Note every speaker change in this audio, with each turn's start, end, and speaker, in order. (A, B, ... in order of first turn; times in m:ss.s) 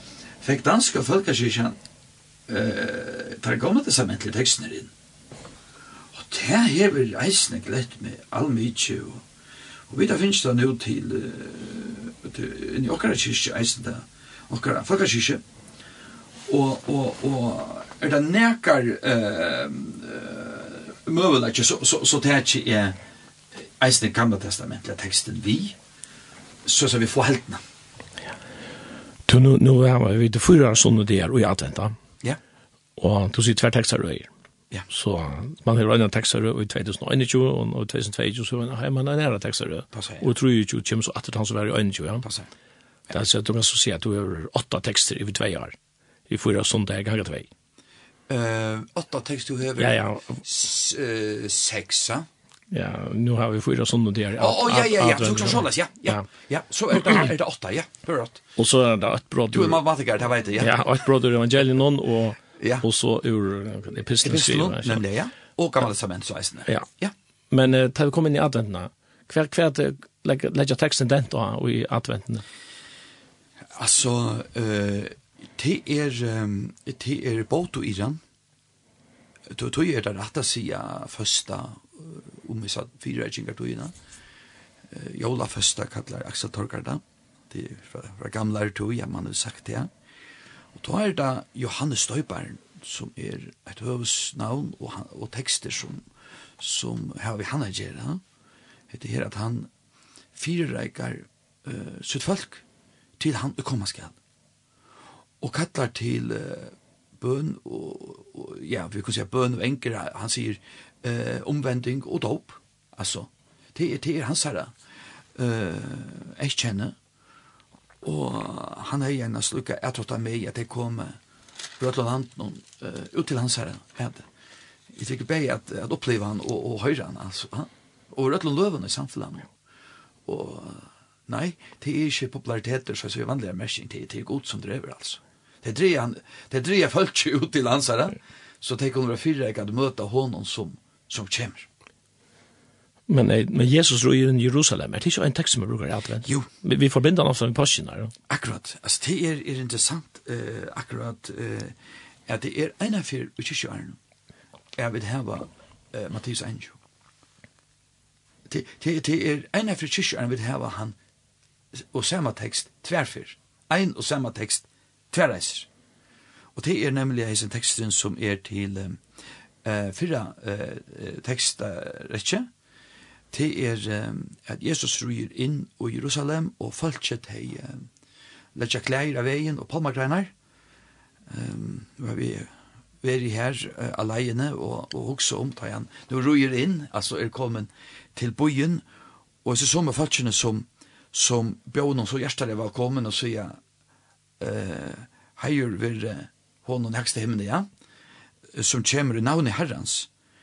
0:00.4-0:01.8 A
0:02.5-0:04.9 A
0:06.1-0:09.2 A
0:09.9-0:15.4 A
0:16.5-0:23.0 A
0:23.5-0:25.8 A
0:26.6-0:27.6 A
0:29.3-0:32.0 B
0:33.0-0:34.3 B
0:34.9-0:42.3 B
0:39.9-0:40.2 A
0:42.2-0:42.5 A
0:43.1-0:45.8 B
0:46.3-0:47.5 B
0:48.3-0:52.3 A
0:49.8-0:50.4 B
0:52.7-0:56.2 B
0:54.4-0:58.4 A
0:58.6-0:59.8 B
0:59.5-1:00.8 A
1:00.6-1:05.0 B
1:02.6-1:02.8 A
1:04.2-1:07.1 A
1:07.5-1:12.4 B
1:13.7-1:18.2 A
1:19.5-1:23.9 A
1:24.9-1:29.9 A
1:30.7-1:36.0 A
1:36.6-1:38.2 A
1:38.9-1:39.7 A
1:40.3-1:42.6 A
1:43.2-1:44.1 A
1:45.4-1:54.7 A
1:55.3-1:57.0 A
1:58.0-2:01.2 A
2:01.8-2:04.3 A
2:04.9-2:09.5 A
2:10.2-2:21.7 A
2:23.1-2:28.1 B
2:28.3-2:31.7 A
2:32.3-2:34.0 A
2:34.8-2:36.8 A
2:38.5-2:41.0 A
2:41.8-2:45.7 A
2:46.5-2:49.0 A
2:49.6-2:52.5 A
2:53.3-2:57.9 A
2:58.5-3:00.3 A
3:01.3-3:02.5 A
3:03.0-3:08.8 A
3:09.4-3:13.6 A
3:14.4-3:17.7 A
3:18.5-3:20.1 A